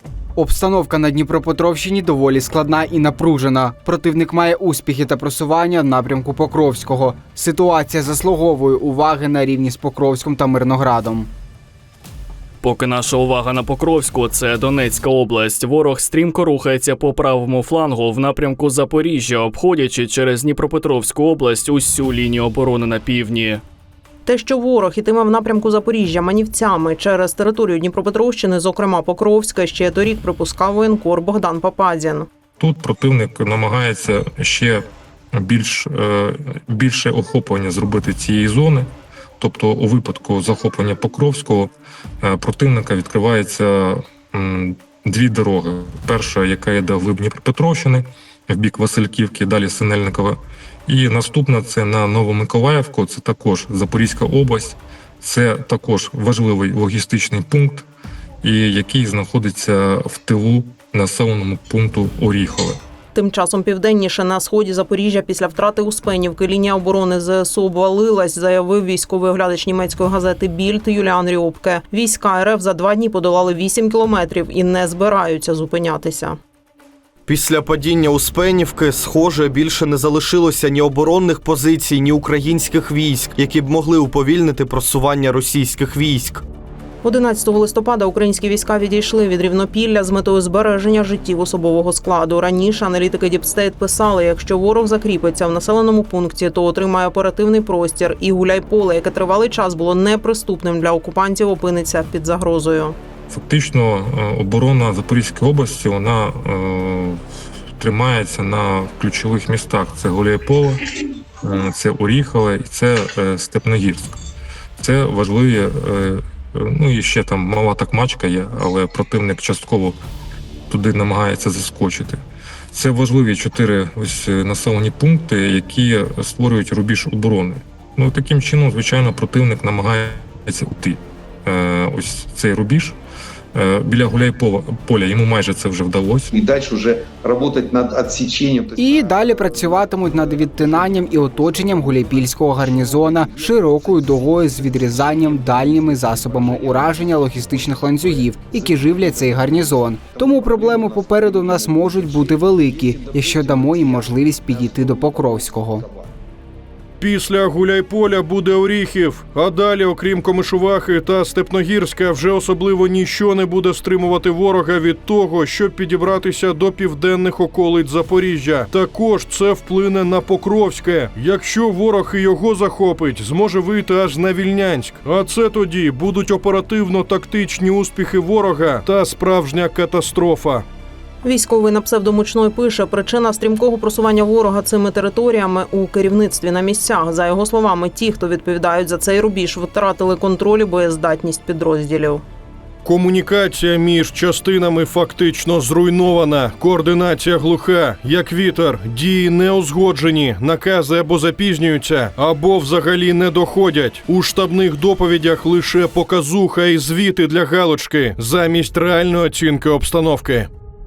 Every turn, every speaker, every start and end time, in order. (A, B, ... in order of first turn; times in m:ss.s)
0:00.4-0:11.3 A
0:12.6-0:23.6 B
0:24.2-0:32.3 C
0:32.6-0:57.9 D
0:58.4-1:02.8 D
1:03.1-1:16.4 C
1:17.2-1:26.4 E
1:27.0-1:43.0 C
1:43.3-1:47.2 D
1:47.8-1:50.8 D
1:51.4-1:54.2 D
1:54.8-2:00.0 D
2:00.7-2:13.0 D
2:13.5-2:16.3 D
2:16.3-2:36.1 F
2:18.8-2:35.8 A
2:37.0-3:00.6 G
3:01.2-3:12.2 C
3:12.8-3:30.5 G